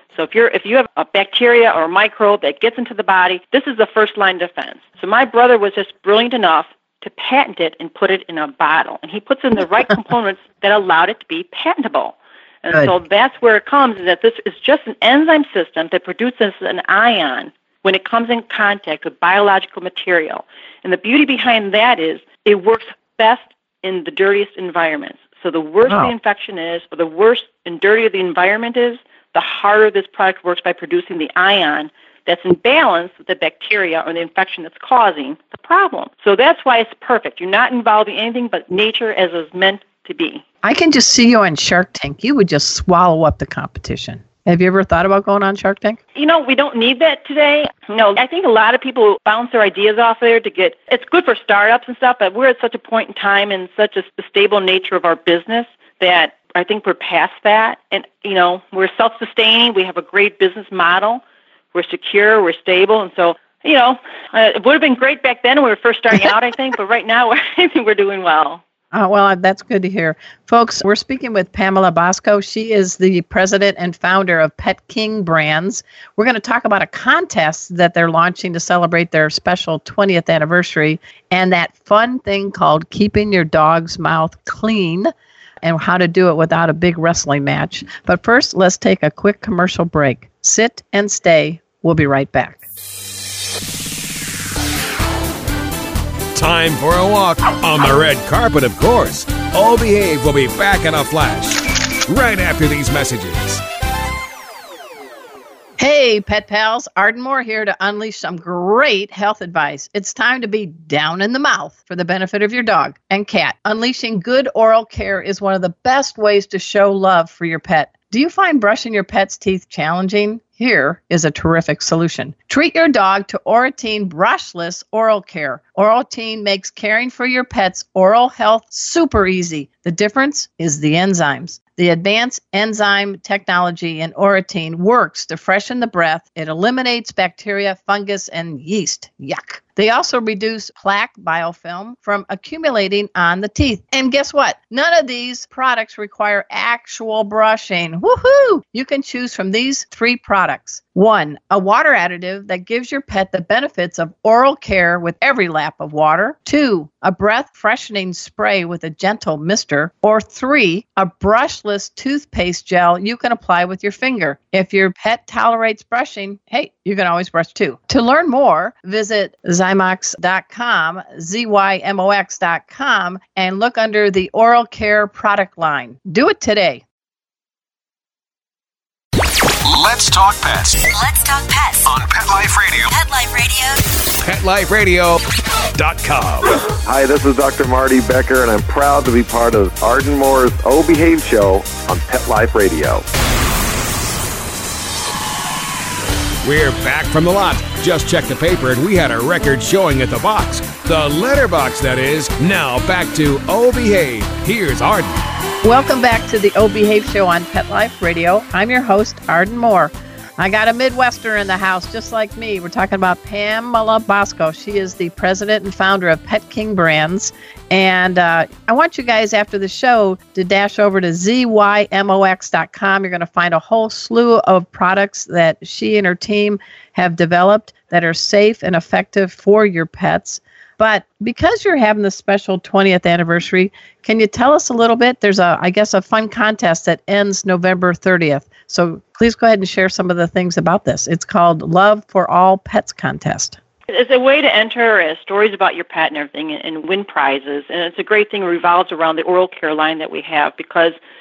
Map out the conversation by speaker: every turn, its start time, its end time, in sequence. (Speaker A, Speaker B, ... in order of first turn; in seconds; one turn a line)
Speaker A: 0.1-40.4
Speaker B: 40.6-46.0
Speaker A: 46.1-61.2
Speaker A: 61.7-68.6
Speaker B: 68.9-85.1
Speaker B: 85.6-92.6
Speaker C: 96.3-103.6
Speaker B: 105.8-176.8
Speaker D: 179.7-180.8
Speaker E: 180.9-181.9
Speaker D: 181.9-182.9
Speaker E: 182.9-183.8
Speaker C: 184.2-185.2
Speaker C: 185.8-186.6
Speaker F: 186.8-193.0
Speaker C: 196.4-205.1
Speaker B: 205.6-243.6
Speaker A: 243.9-250.9